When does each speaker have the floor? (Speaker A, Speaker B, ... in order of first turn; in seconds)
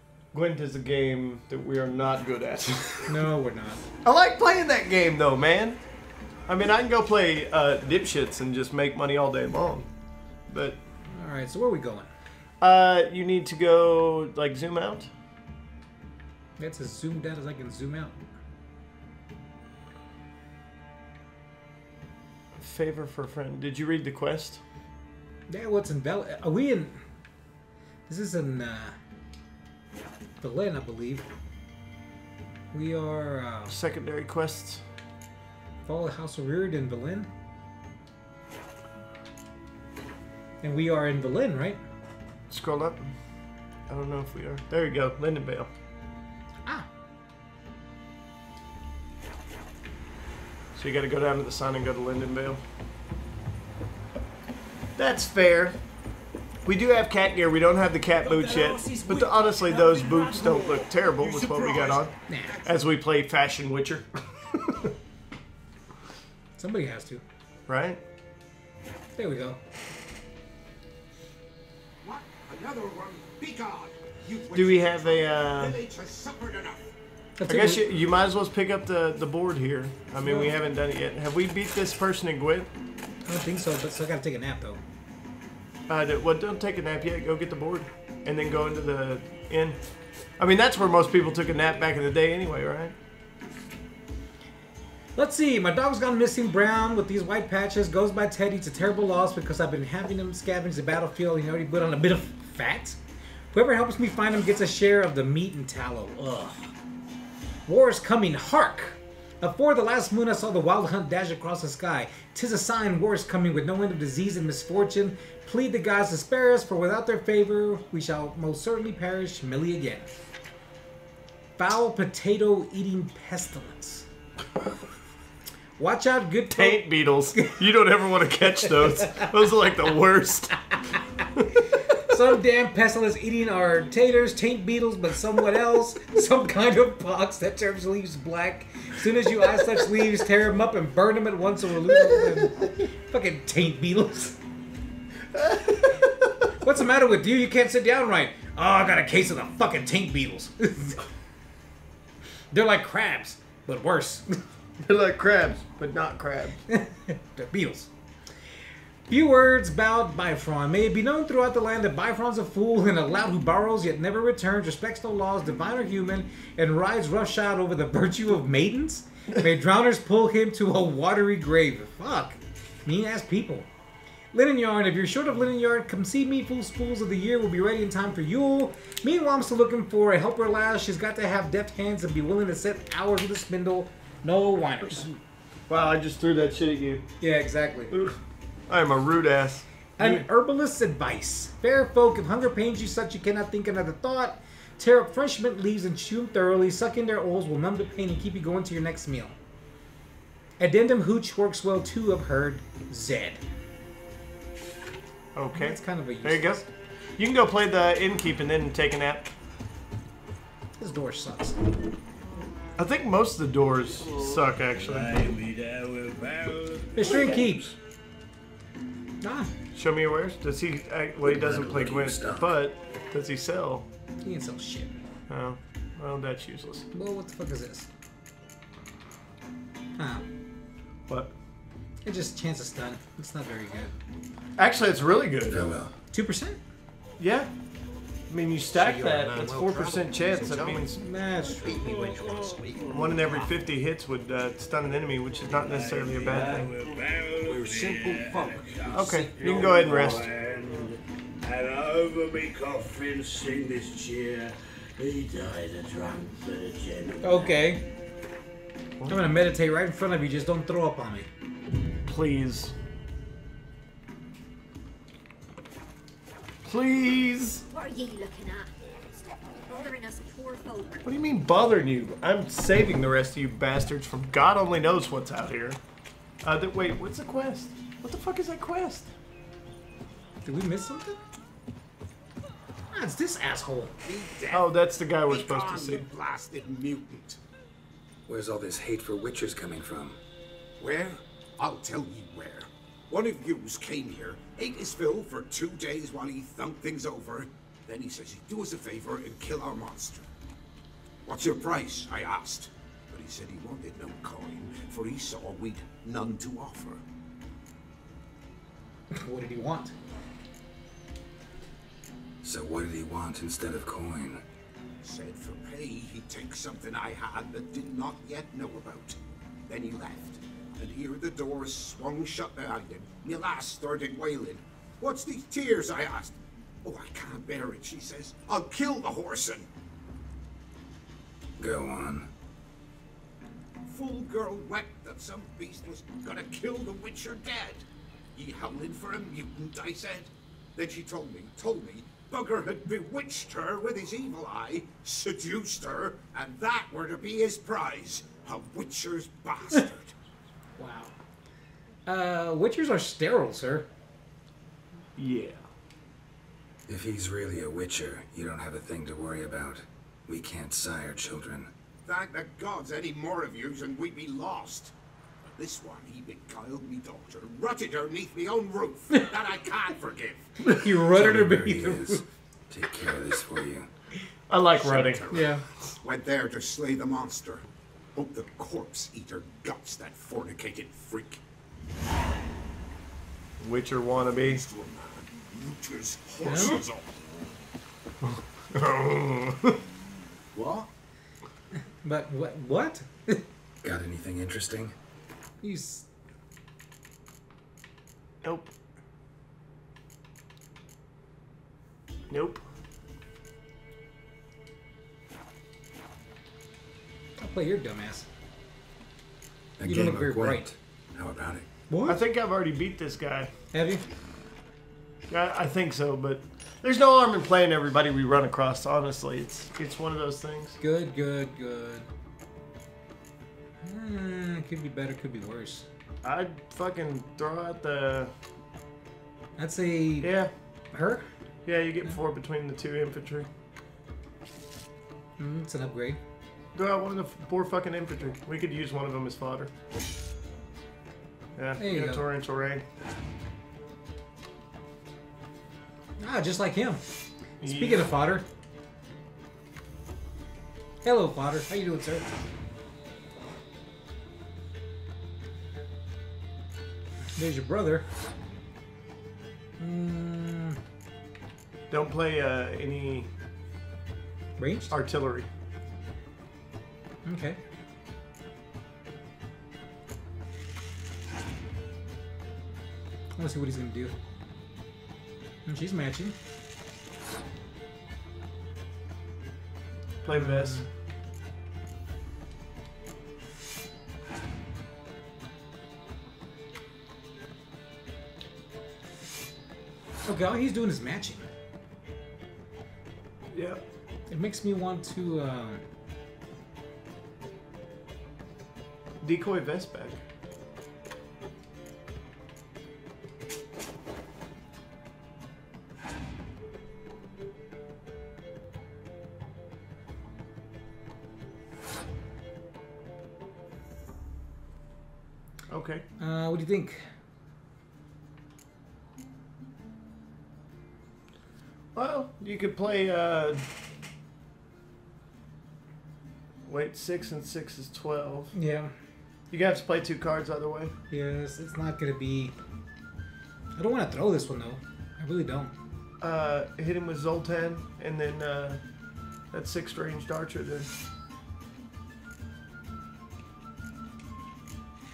Speaker A: 0.3-3.2, 4.0-5.8, 6.5-9.9, 10.5-10.8, 12.6-15.1, 22.6-24.6, 33.7-34.8, 42.5-43.1, 43.9-45.7, 50.8-52.6, 55.0-55.8, 56.7-62.1, 62.6-64.8, 67.7-68.0, 74.5-75.8, 77.5-82.7, 85.9-89.8, 90.4-93.0, 126.5-130.6, 145.3-146.4, 154.8-156.6, 185.7-187.1, 187.9-188.2, 188.7-190.3, 205.3-206.7, 207.2-209.3, 212.8-215.3, 219.7-223.9, 225.3-226.9, 231.1-231.3, 234.6-235.8, 237.2-237.5, 238.3-241.0, 242.9-246.8, 248.9-250.3, 262.1-262.7, 266.6-267.6, 271.0-275.8, 276.4-279.1, 284.5-286.1, 355.2-355.6, 374.5-375.4, 383.6-384.6, 388.2-389.8, 398.4-398.7, 402.3-402.6, 412.1-413.5, 415.3-420.8, 426.2-428.3, 430.2-430.5, 431.7-433.5, 436.8-439.7, 441.6-442.8, 447.6-448.1, 461.9-463.3, 464.9-465.5, 480.2-480.8, 493.5-493.8, 499.2-500.2, 515.7-516.0, 521.9-523.6, 526.6-528.5, 529.5-530.9, 536.2-538.8, 539.5-540.9
Speaker B: 3.1-3.8, 11.1-12.1, 16.6-18.2, 25.5-27.0, 28.1-28.9, 30.4-31.3, 32.7-33.8, 35.9-37.3, 40.6-41.8, 62.3-62.6, 66.6-67.2, 69.2-69.6, 77.4-77.8, 80.2-80.5, 83.3-84.8, 95.2-103.0, 103.5-106.7, 107.7-120.2, 121.6-124.1, 125.8-126.8, 132.1-144.4, 146.6-151.0, 152.5-154.3, 156.7-157.9, 159.1-173.7, 174.3-185.2, 187.2-187.9, 190.0-199.4, 200.6-203.4, 205.5-206.6, 210.8-211.6, 216.9-217.7, 219.2-219.5, 224.2-225.0, 226.9-227.9, 230.0-230.3, 232.1-233.9, 236.1-236.6, 240.9-242.3, 257.2-257.8, 259.1-261.3, 280.4-281.2, 282.9-283.9, 309.1-309.9, 350.8-351.1, 352.1-353.9, 370.6-372.2, 375.3-375.6, 386.4-386.8, 392.0-393.4, 395.6-396.1, 407.4-408.3, 409.9-410.7, 411.9-412.2, 413.7-414.0, 420.8-422.1, 423.8-425.9, 429.6-430.3, 430.9-431.3, 435.4-436.2, 441.8-442.2, 446.2-447.0, 447.6-448.4, 451.0-452.3, 457.4-458.1, 459.8-460.8, 464.6-465.0, 467.2-467.6, 473.4-474.1, 475.7-476.4, 480.3-480.9, 490.3-491.5, 494.3-495.8, 516.2-517.0, 528.5-528.9, 531.1-532.5, 533.8-535.7
Speaker C: 58.2-62.7, 72.0-76.9, 238.8-240.9, 241.7-243.4, 247.5-248.3, 284.1-284.7, 285.2-287.4, 290.8-300.3, 301.3-307.0, 315.0-329.7, 333.9-337.9, 338.4-350.1, 362.1-364.9, 365.4-370.5, 374.8-375.5, 376.0-381.4, 384.4-387.2, 390.6-390.9
Speaker D: 214.2-217.7, 242.3-242.9, 245.5-257.5
Speaker E: 221.2-222.6, 235.5-235.9, 288.3-290.2, 312.4-314.4, 331.6-332.3, 356.9-361.7, 371.1-373.9, 393.8-394.9, 409.8-411.7
Speaker F: 267.7-268.7, 269.5-271.0